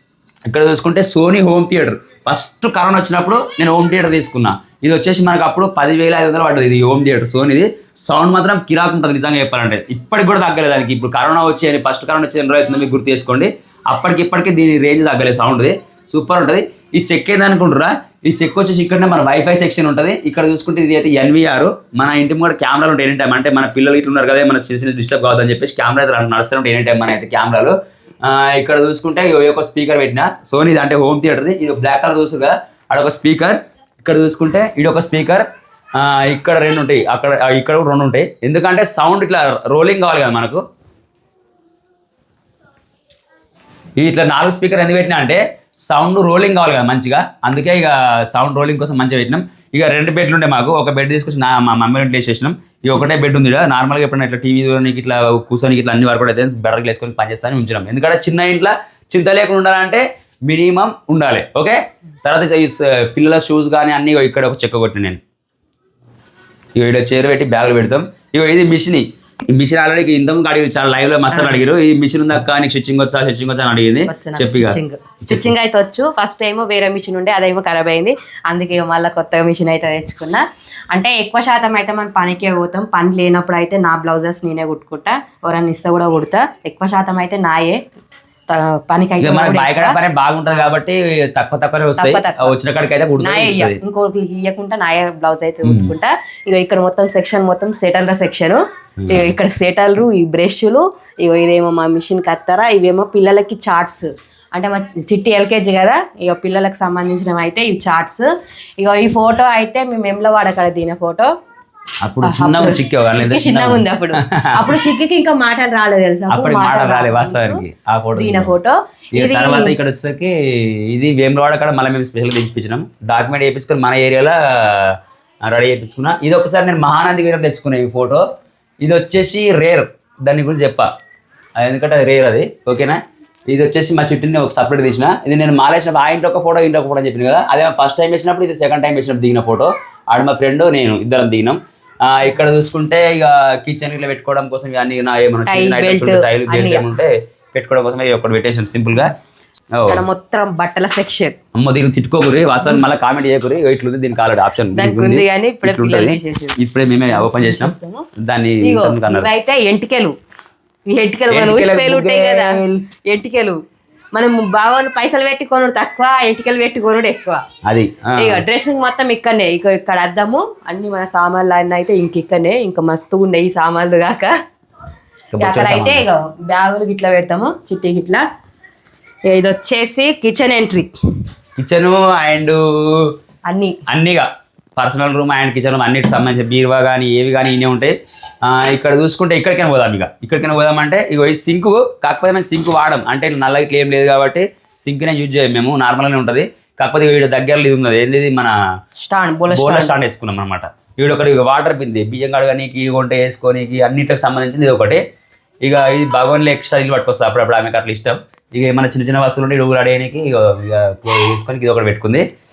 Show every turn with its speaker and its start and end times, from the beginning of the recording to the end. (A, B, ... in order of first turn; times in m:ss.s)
0:00.5-0:40.6 A
0:44.0-1:05.2 A
1:06.7-1:14.8 A
1:11.3-1:11.6 B
1:14.1-1:27.8 B
1:28.5-1:30.0 B
1:29.2-1:33.8 A
1:32.0-1:32.5 B
1:33.2-1:51.3 B
1:35.6-1:35.9 A
1:39.0-1:39.3 A
1:52.0-1:54.8 A
1:52.2-1:57.6 B
1:56.3-1:58.5 A
1:58.2-1:59.8 B
1:59.2-2:08.2 A
2:08.8-2:10.9 A
2:11.6-2:29.1 A
2:25.4-2:26.9 B
2:29.7-2:30.0 A
2:29.9-2:31.4 B
2:31.5-2:39.3 A
2:34.7-2:36.6 B
2:37.1-2:38.0 B
2:38.6-2:40.1 B
2:40.9-2:43.6 B
2:41.3-2:42.8 A
2:44.1-2:47.4 B
2:47.6-2:48.4 A
2:48.2-2:54.3 B
2:55.3-2:56.0 A
2:55.4-2:58.2 B
2:59.3-3:00.9 B
3:01.6-3:03.1 A
3:03.5-3:03.8 B
3:03.9-3:18.5 A
3:19.0-3:19.9 B
3:19.5-3:25.0 A
3:25.6-3:32.2 A